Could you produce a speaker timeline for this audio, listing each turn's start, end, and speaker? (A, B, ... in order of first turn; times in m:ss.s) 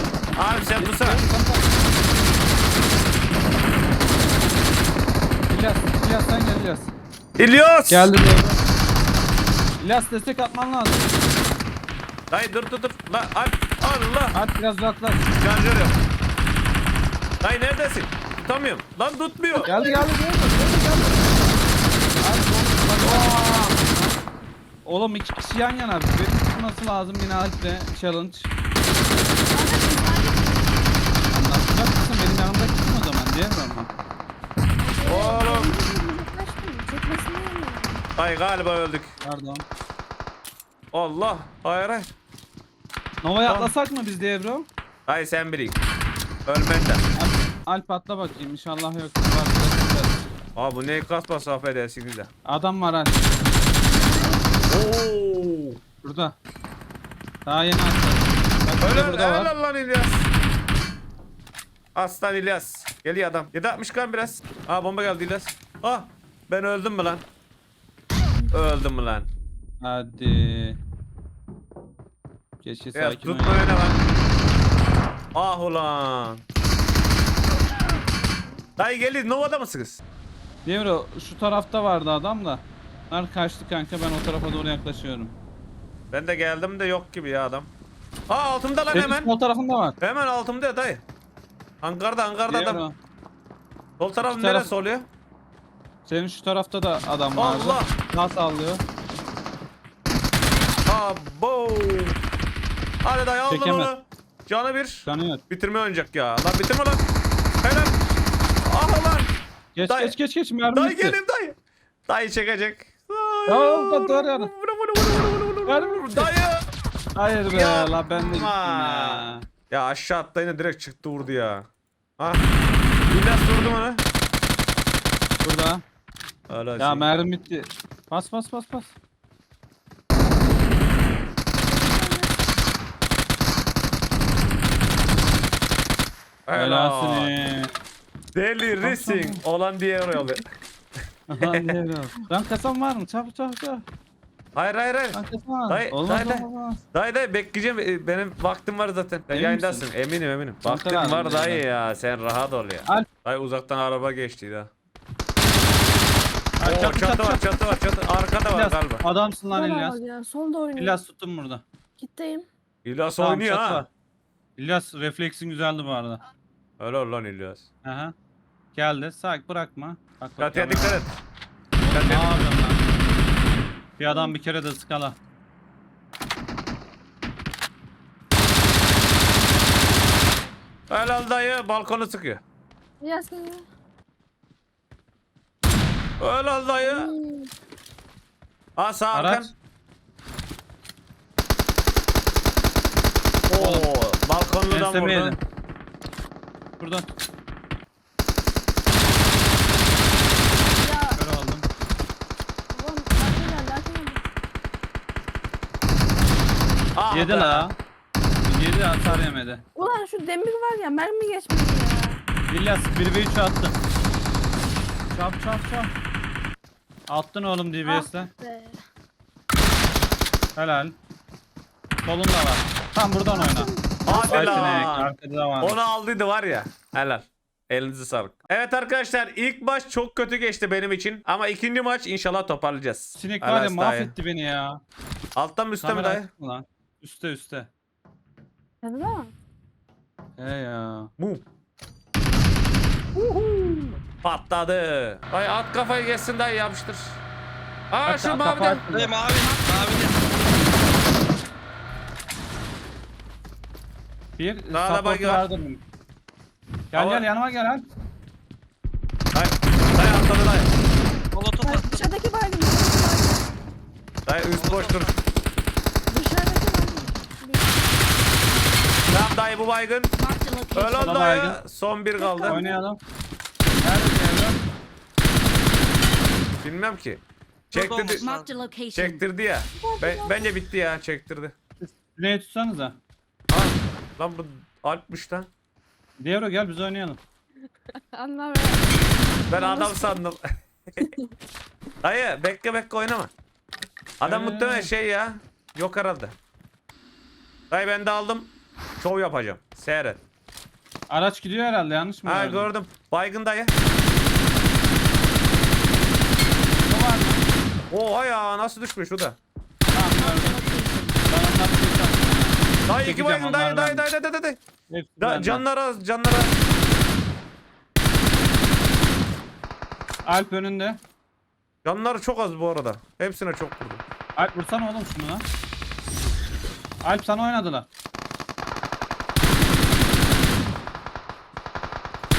0:00.4-0:01.2 A
0:00.8-0:01.8 B
0:05.5-0:06.9 B
0:07.4-0:08.1 A
0:07.9-0:08.6 B
0:09.8-0:11.2 B
0:12.3-0:14.4 A
0:14.3-0:15.3 B
0:15.4-0:16.0 A
0:17.4-0:19.7 A
0:19.5-0:20.1 C
0:19.6-0:21.4 B
0:22.2-0:24.2 B
0:23.0-0:23.8 A
0:24.8-0:28.5 B
0:29.5-0:30.7 C
0:31.3-0:33.9 B
0:34.8-0:38.0 C
0:35.0-0:35.7 A
0:38.2-0:39.1 A
0:39.2-0:39.6 B
0:40.9-0:42.1 A
0:43.2-0:44.7 B
0:43.4-0:43.7 A
0:45.1-0:45.8 A
0:46.5-0:47.0 A
0:47.2-0:50.2 B
0:50.6-0:52.3 A
0:52.5-0:53.3 B
0:54.7-0:55.8 A
0:56.0-0:56.4 B
0:57.5-0:59.5 B
0:58.8-1:00.3 A
1:02.0-1:07.2 A
1:08.5-1:09.3 A
1:09.8-1:10.8 B
1:12.6-1:13.8 B
1:12.9-1:14.0 A
1:15.3-1:16.4 A
1:18.8-1:20.0 A
1:20.7-1:25.4 B
1:26.1-1:27.7 A
1:28.3-1:29.3 A
1:28.9-1:30.0 B
1:30.0-1:31.0 A
1:31.8-1:32.8 A
1:32.5-1:33.0 B
1:34.0-1:35.1 A
1:34.2-1:34.7 B
1:36.0-1:38.8 B
1:37.4-1:37.9 A
1:40.9-1:42.2 A
1:43.0-1:47.0 A
1:43.5-1:43.9 B
1:45.1-1:45.4 B
1:47.6-1:48.0 A
1:48.7-1:50.2 A
1:49.8-1:51.2 B
1:50.7-1:51.6 A
1:52.1-1:56.7 A
1:53.5-1:54.5 B
1:55.7-1:56.3 B
1:57.2-1:59.5 B
1:57.5-2:01.7 A
2:02.2-2:02.5 A
2:03.1-2:04.0 A
2:05.4-2:05.8 B
2:06.5-2:07.1 A
2:06.8-2:08.9 B
2:11.8-2:12.3 C
2:16.5-2:17.3 A
2:16.5-2:17.7 B
2:18.4-2:20.5 A
2:18.8-2:19.4 B
2:21.3-2:23.8 B
2:21.4-2:21.8 A
2:24.6-2:34.7 A
2:25.1-2:26.8 B
2:29.3-2:29.9 B
2:30.6-2:31.6 B
2:36.6-2:37.8 B
2:36.6-2:39.0 A
2:38.5-2:40.0 B
2:39.5-2:41.0 C
2:40.8-2:41.6 B
2:42.0-2:42.5 C
2:42.8-2:43.8 A
2:43.2-2:43.9 B
2:44.6-2:46.2 B
2:46.8-2:47.7 A
2:47.8-2:48.1 B
2:48.7-2:51.0 B
2:50.4-2:51.1 A
2:51.8-2:52.8 B
2:51.9-2:52.5 A
2:54.0-2:55.2 B
2:54.1-2:54.3 C
3:00.9-3:02.4 A
3:03.0-3:03.6 C
3:06.2-3:07.1 A
3:06.8-3:07.5 C
3:08.8-3:09.5 A
3:09.1-3:09.5 B
3:13.5-3:15.4 A
3:13.6-3:13.9 B
3:14.7-3:15.4 B
3:16.8-3:17.1 B
3:20.8-3:21.2 C
3:21.2-3:21.7 B
3:22.7-3:24.2 C
3:27.0-3:27.7 A
3:27.1-3:27.8 B
3:28.5-3:29.6 B
3:29.8-3:32.2 C
3:32.5-3:33.8 B
3:35.1-3:35.9 B
3:37.1-3:38.3 B
3:37.8-3:38.8 C
3:40.6-3:40.9 B
3:42.0-3:45.8 B
3:43.3-3:45.0 C
3:44.1-3:54.1 A
3:53.2-3:54.8 B
3:55.4-3:56.3 A
3:55.8-3:57.7 B
3:58.8-3:59.3 C
4:00.4-4:01.1 B
4:01.2-4:01.4 A
4:03.2-4:07.2 A
4:07.9-4:08.9 A
4:08.1-4:09.2 B
4:08.9-4:10.2 D
4:09.4-4:10.0 E
4:14.4-4:15.8 B
4:14.7-4:15.4 A
4:16.9-4:17.9 B
4:16.9-4:17.3 A
4:19.3-4:20.7 A
4:21.3-4:22.0 D
4:21.6-4:23.4 C
4:24.3-4:25.1 A
4:24.5-4:25.2 D
4:26.1-4:27.9 C
4:29.1-4:30.2 A
4:30.2-4:31.2 E
4:30.7-4:32.7 A
4:31.0-4:31.6 B
4:32.2-4:32.8 C
4:32.5-4:33.0 B
4:33.8-4:34.6 B
4:36.6-4:38.3 A
4:37.7-4:38.5 D
4:38.2-4:39.2 E
4:38.9-4:41.6 A
4:39.8-4:40.5 C
4:41.8-4:43.0 B
4:43.5-4:45.5 A
4:46.2-4:47.2 B
4:48.0-4:50.2 C
4:49.5-4:51.0 A
4:52.0-4:53.3 A
4:54.2-4:56.4 A
4:54.2-4:54.9 B
4:57.7-5:00.2 A
5:01.1-5:02.7 B
5:02.2-5:03.7 A
5:06.9-5:07.4 B
5:07.9-5:09.4 A
5:09.9-5:10.6 B
5:10.1-5:11.2 E
5:11.2-5:14.1 B
5:12.9-5:14.6 A
5:14.9-5:15.6 B
5:15.2-5:16.5 A
5:20.2-5:21.0 B
5:21.8-5:24.0 A
5:24.4-5:25.5 B
5:27.0-5:27.9 B